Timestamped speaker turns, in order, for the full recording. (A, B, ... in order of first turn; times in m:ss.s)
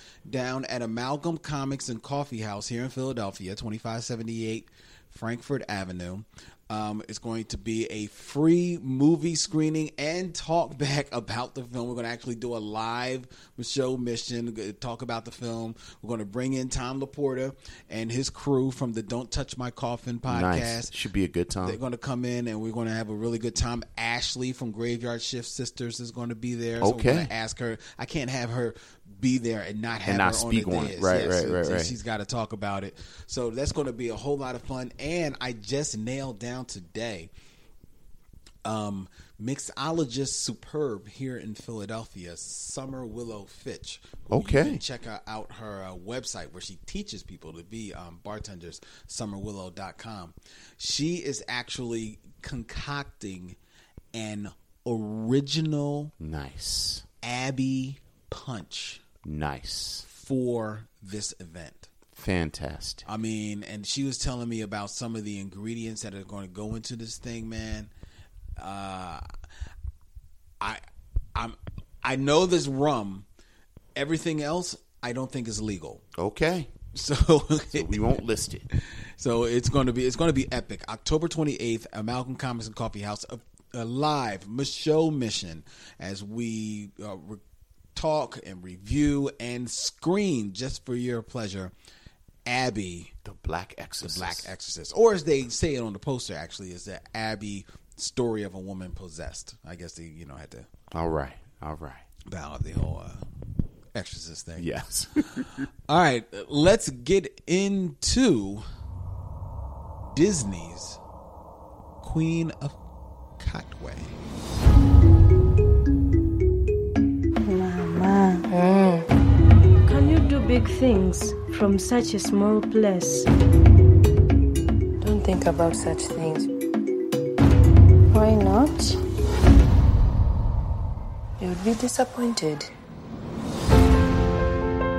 0:00.3-0:20.9 A
0:20.3-0:21.8 B
0:21.6-0:37.3 A
0:26.8-0:27.3 B
0:30.0-0:32.0 B
0:38.6-0:53.6 A
0:44.3-0:44.8 B
0:54.1-0:56.1 A
0:56.2-0:57.1 B
0:57.2-0:59.0 A
0:59.2-1:00.0 B
1:00.0-1:01.9 A
1:02.1-1:03.1 B
1:03.1-1:07.9 A
1:08.6-1:09.3 A
1:11.4-1:13.3 A
1:14.0-1:16.0 A
1:16.2-1:16.7 B
1:16.9-1:18.0 A
1:17.7-1:18.7 B
1:18.8-1:27.4 A
1:28.0-1:31.7 A
1:32.5-1:33.1 A
1:33.2-1:34.5 B
1:34.0-1:40.7 A
1:40.9-1:42.0 B
1:42.3-1:43.2 A
1:44.0-1:44.7 A
1:44.6-1:45.6 B
1:45.9-1:48.6 A
1:50.0-1:51.0 A
1:52.0-1:52.8 A
1:53.4-1:54.1 A
1:57.4-1:59.0 C
1:59.9-2:03.3 D
2:05.0-2:06.5 C
2:08.1-2:09.0 C
2:11.4-2:12.7 C